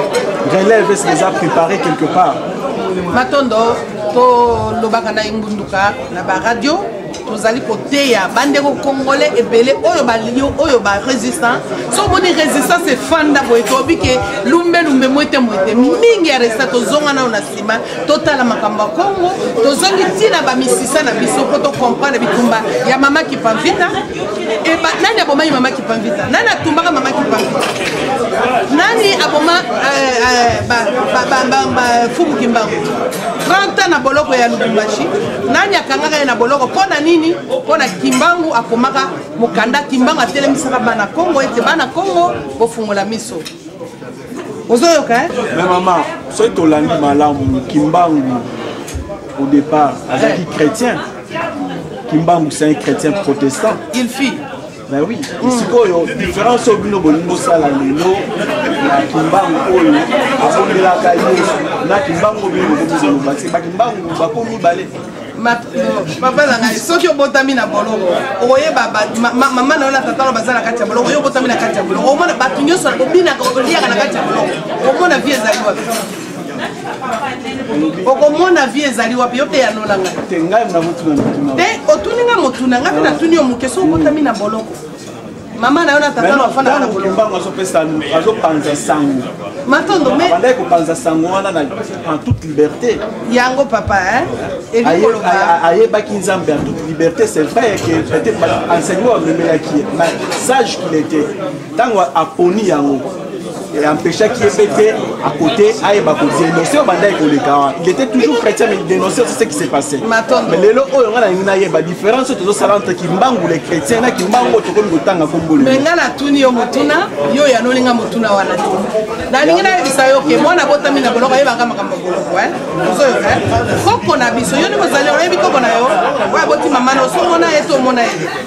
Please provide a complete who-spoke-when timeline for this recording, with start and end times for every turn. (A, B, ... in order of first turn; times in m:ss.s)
0:00.4-0:02.4 A
0:03.1-0:24.0 B
0:24.6-0:27.6 B
0:28.7-0:32.9 B
0:33.4-0:43.5 B
0:44.7-0:45.3 B
0:45.5-0:48.5 A
0:49.4-0:51.0 A
0:52.1-0:53.8 A
0:53.9-0:54.4 B
0:54.9-0:58.3 A
0:55.4-0:55.7 B
0:58.8-1:04.9 A
1:05.4-1:16.0 B
1:17.7-1:18.1 A
1:18.0-1:20.2 B
1:20.2-1:21.7 A
1:21.6-1:24.8 B
1:22.9-1:23.2 A
1:23.8-1:24.2 A
1:25.6-1:27.2 B
1:26.2-1:29.3 A
1:29.7-1:30.4 B
1:30.2-1:33.0 A
1:33.3-1:35.6 B
1:34.8-1:43.1 A
1:43.7-1:55.8 A
1:50.0-1:50.6 B
1:55.6-2:08.3 B
1:59.4-2:00.5 A